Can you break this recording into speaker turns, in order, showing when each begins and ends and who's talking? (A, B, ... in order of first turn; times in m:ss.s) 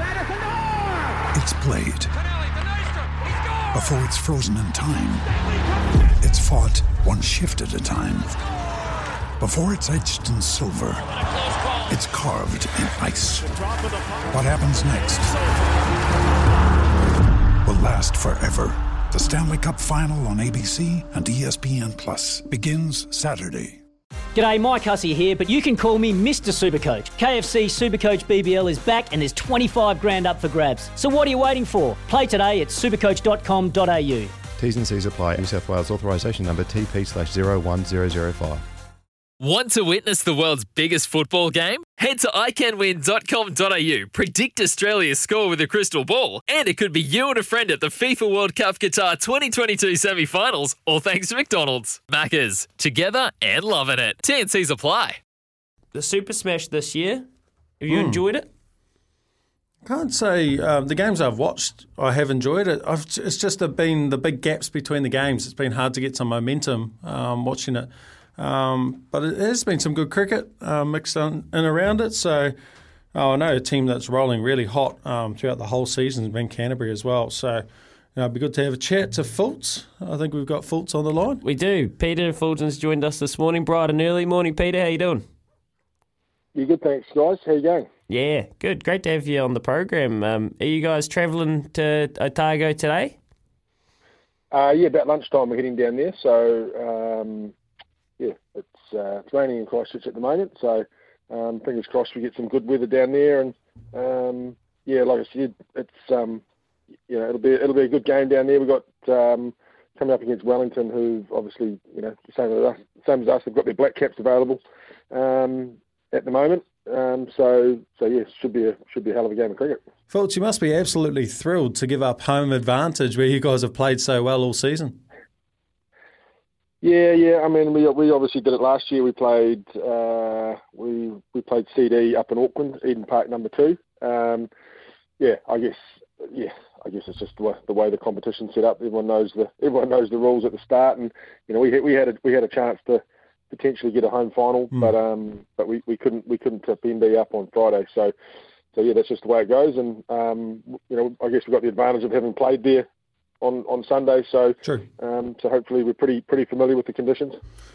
0:01.3-0:02.1 A
0:03.7-0:05.3 A
0:06.2-0:08.4 A
0:09.4-0:11.1 A
0:11.9-0:13.6 A
0:14.3-0:15.3 A
0:17.6-0:23.8 A
0:24.3-0:34.3 B
0:34.6-0:38.6 C
0:39.4-0:55.2 D
0:55.9-0:57.2 E
0:57.8-0:58.5 E
0:57.9-0:58.2 F
0:59.8-1:12.5 F
1:13.1-1:17.6 F
1:18.2-1:21.4 F
1:21.4-1:25.2 E
1:26.5-1:27.9 G
1:28.1-1:33.2 E
1:34.5-1:37.5 G
1:38.2-1:46.4 G
1:47.1-1:59.8 G
2:00.1-2:05.0 F
2:06.8-2:14.5 G
2:15.2-2:28.1 G
2:28.7-2:32.8 G
2:33.4-2:37.4 G